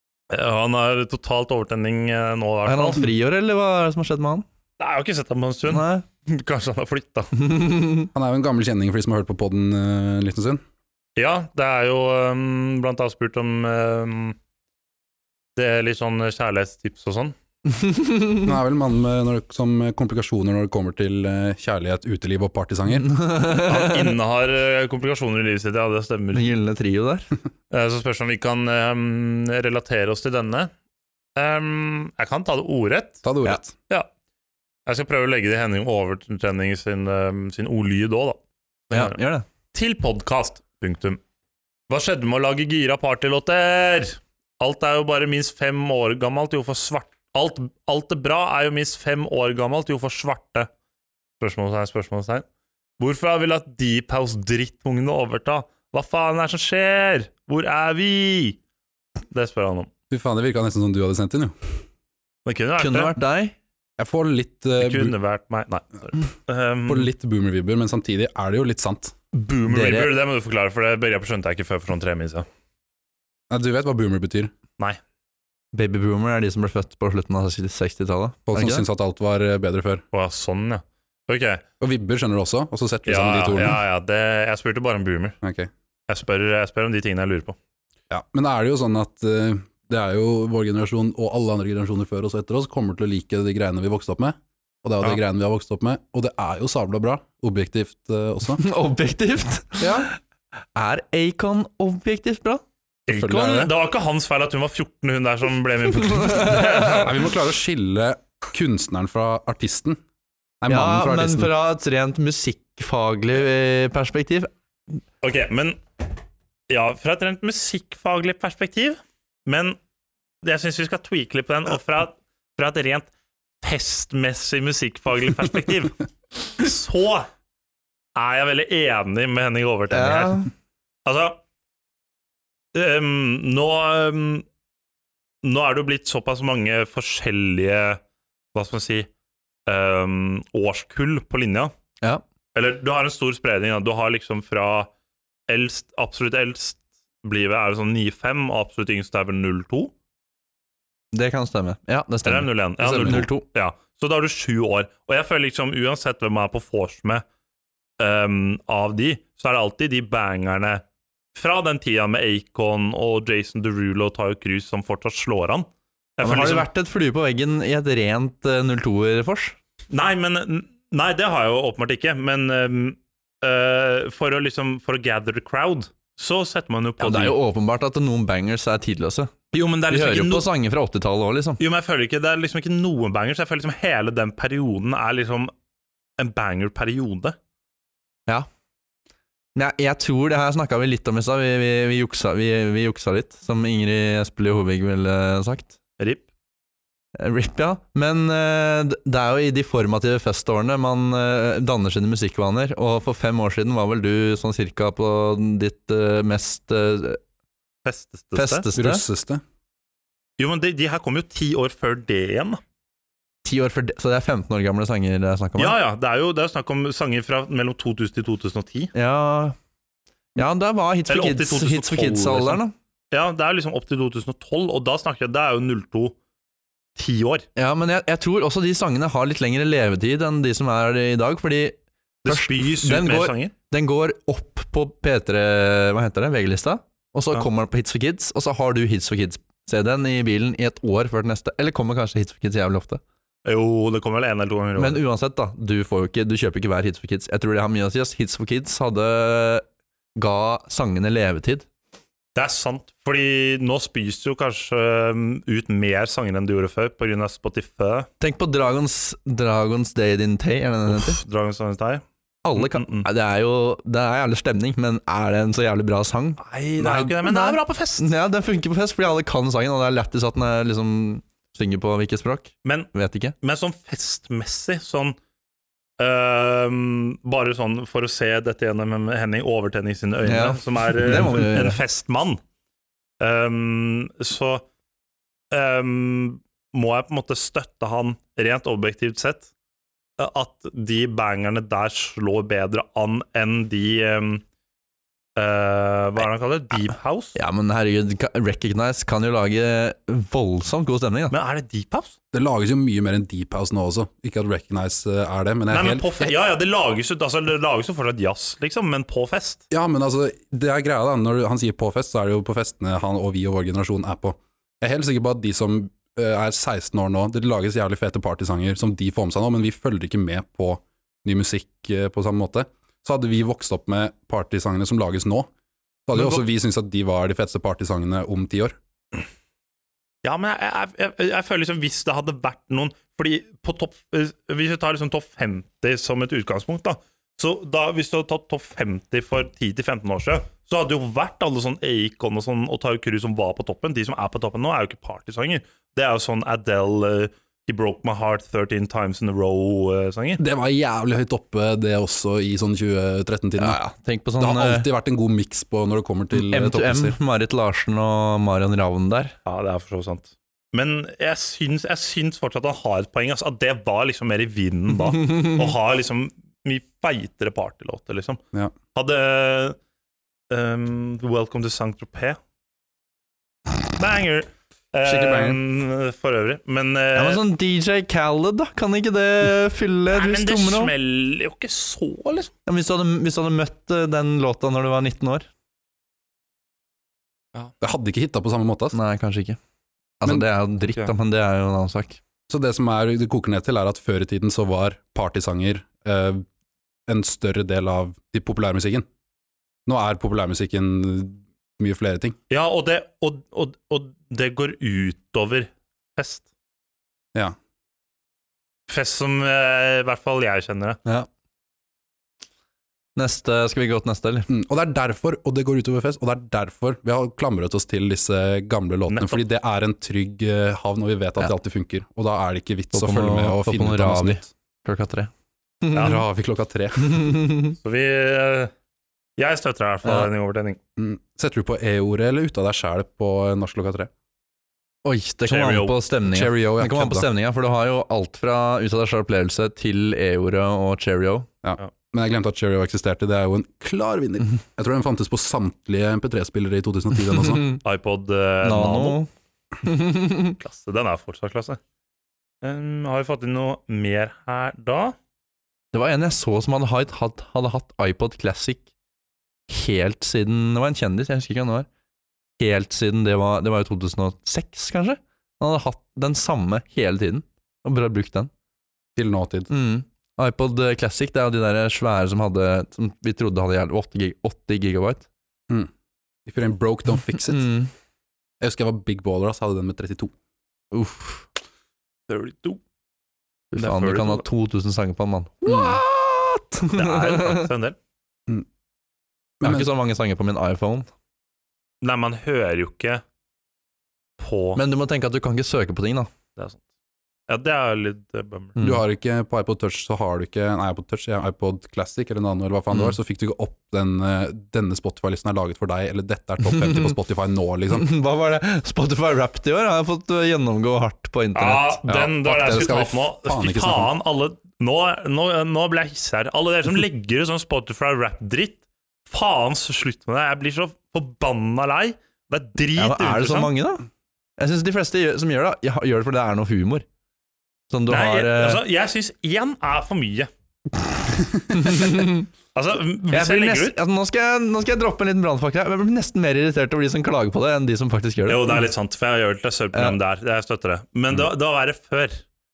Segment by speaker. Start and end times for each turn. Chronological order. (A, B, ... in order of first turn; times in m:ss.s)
0:00.3-0:03.1 A
0:02.7-0:04.5 B
0:04.8-0:07.3 A
0:05.7-0:06.0 B
0:07.4-0:08.1 B
0:08.1-0:10.6 C
0:11.2-0:14.4 A
0:15.6-0:17.4 A
0:17.7-0:18.5 B
0:18.4-0:23.1 C
0:22.9-0:24.2 B
0:23.6-0:26.5 A
0:26.3-0:27.3 B
0:27.7-0:30.7 A
0:31.4-0:33.2 A
0:33.2-0:33.7 C
0:34.9-0:38.4 A
0:38.9-0:39.2 A
0:38.9-0:39.4 B
0:39.7-0:41.2 A
0:41.9-0:50.7 A
0:51.4-0:52.4 A
0:53.0-0:58.6 A
0:59.3-0:59.9 A
1:00.1-1:01.6 C
1:02.4-1:03.2 A
1:02.8-1:03.6 B
1:04.0-1:05.2 C
1:04.8-1:07.1 A
1:06.9-1:09.1 C
1:09.3-1:12.5 A
1:09.7-1:10.1 B
1:13.5-1:14.5 C
1:15.7-1:18.8 B
1:18.5-1:20.0 C
1:20.1-1:21.6 A
1:21.8-1:23.8 C
1:23.1-1:25.4 A
1:25.4-1:25.7 C
1:26.1-1:27.6 A
1:28.1-1:38.6 C
1:38.6-1:40.2 B
1:39.8-1:40.1 C
1:40.8-1:42.6 B
1:43.1-1:43.7 C
1:43.1-1:47.2 A
1:46.0-1:47.1 B
1:47.0-1:50.0 C
1:50.6-1:51.5 C
1:50.7-1:54.5 B
1:55.2-1:55.8 A
1:56.7-1:59.8 A
2:00.4-2:03.1 A
2:03.6-2:07.3 A
2:08.2-2:10.4 A
2:09.9-2:10.5 B
2:11.0-2:11.4 A
2:12.7-2:14.4 A
2:15.4-2:18.0 A
2:18.5-2:19.1 A
2:19.7-2:21.7 A
2:22.5-2:24.9 A
2:25.5-2:29.9 A
2:31.1-2:33.5 B
2:32.3-2:37.2 A
2:38.0-2:40.8 A
2:41.4-2:46.7 A
2:46.2-2:49.6 B
2:49.9-2:57.4 A
2:57.0-2:59.3 B
2:59.5-3:00.5 A
2:59.9-3:01.6 B
3:01.6-3:05.5 A
3:06.2-3:07.4 A
3:09.6-3:15.7 B
3:17.2-3:27.2 B
3:27.8-3:28.6 A
3:28.3-3:29.0 B
3:28.8-3:29.4 C
3:30.4-3:32.6 A
3:33.4-3:35.8 B
3:35.6-3:38.9 A
3:38.9-3:39.6 B
3:40.4-3:42.7 B
3:41.1-3:42.6 A
3:43.1-3:46.2 A
3:47.0-3:47.5 A
3:47.6-4:03.0 B
3:52.2-3:53.5 A
4:03.4-4:05.0 A
4:04.8-4:09.6 B
4:10.2-4:11.7 B
4:12.4-4:18.1 A
4:18.2-4:21.2 B
4:20.9-4:22.0 A
4:22.4-4:33.4 B
4:22.6-4:23.1 A
4:26.4-4:28.1 A
4:32.6-4:32.9 A
4:33.4-4:35.2 A
4:36.0-4:42.4 A
4:40.2-4:41.8 B
4:43.2-4:44.6 A
4:45.5-4:49.5 A
4:50.2-4:54.4 A
4:55.4-4:57.4 A
4:57.4-5:01.4 B
5:01.3-5:02.2 A
5:02.3-5:06.3 C
5:05.7-5:09.6 A
5:09.7-5:25.5 C
5:26.1-5:28.8 C
5:30.2-5:50.4 A
5:50.4-5:53.8 C
5:53.6-5:54.9 B
5:54.4-5:57.2 C
5:56.3-5:59.4 B
5:59.5-6:08.4 A
6:08.9-6:09.8 A
6:10.5-6:12.4 A
6:14.0-6:17.4 A
6:15.0-6:15.6 C
6:17.2-6:20.9 B
6:20.1-6:22.5 A
6:22.7-6:25.5 B
6:27.8-6:29.0 C
6:28.9-6:29.6 B
6:30.2-6:32.2 B
6:32.5-6:36.5 C
6:37.1-6:39.1 C
6:39.9-6:42.4 C
6:42.5-6:46.5 A
6:48.9-6:51.0 A
6:53.2-6:54.5 B
6:54.5-7:04.5 C
6:59.1-6:59.4 A
7:02.9-7:05.3 B
7:05.8-7:06.2 B
7:05.9-7:06.2 A
7:06.0-7:07.4 C
7:07.0-7:07.8 B
7:07.8-7:08.7 A
7:09.4-7:10.8 A
7:11.0-7:14.1 C
7:15.0-7:21.5 B
7:15.5-7:16.0 A
7:16.3-7:17.3 C
7:21.6-7:27.6 C
7:27.3-7:27.8 B
7:27.8-7:29.2 A
7:28.6-7:29.3 B
7:29.8-7:30.6 B
7:30.6-7:31.8 A
7:32.6-7:35.2 A
7:35.9-7:38.9 B
7:39.7-7:41.9 B
7:42.6-7:48.5 B
7:49.2-7:49.7 C
7:49.7-7:55.3 B
7:56.5-7:57.7 C
7:57.4-7:57.9 B
7:58.6-8:00.3 C
8:00.9-8:01.5 B
8:02.3-8:02.8 A
8:03.7-8:07.7 B
8:03.8-8:04.4 A
8:05.7-8:06.0 C
8:06.9-8:08.0 A
8:09.6-8:09.9 C
8:09.6-8:11.1 B
8:12.0-8:13.2 A
8:14.4-8:14.8 A
8:14.8-8:16.3 B
8:17.5-8:18.8 A
8:18.8-8:19.0 B
8:18.8-8:28.1 C
8:26.6-8:27.1 B
8:27.9-8:32.0 B
8:31.6-8:43.7 A
8:32.1-8:34.1 C
8:43.0-8:44.1 B
8:44.6-8:47.0 B
8:47.9-8:48.8 B
8:48.1-8:50.5 A
8:51.7-8:52.5 B
8:52.8-8:54.0 A
8:53.3-8:58.8 B
8:58.5-9:02.4 A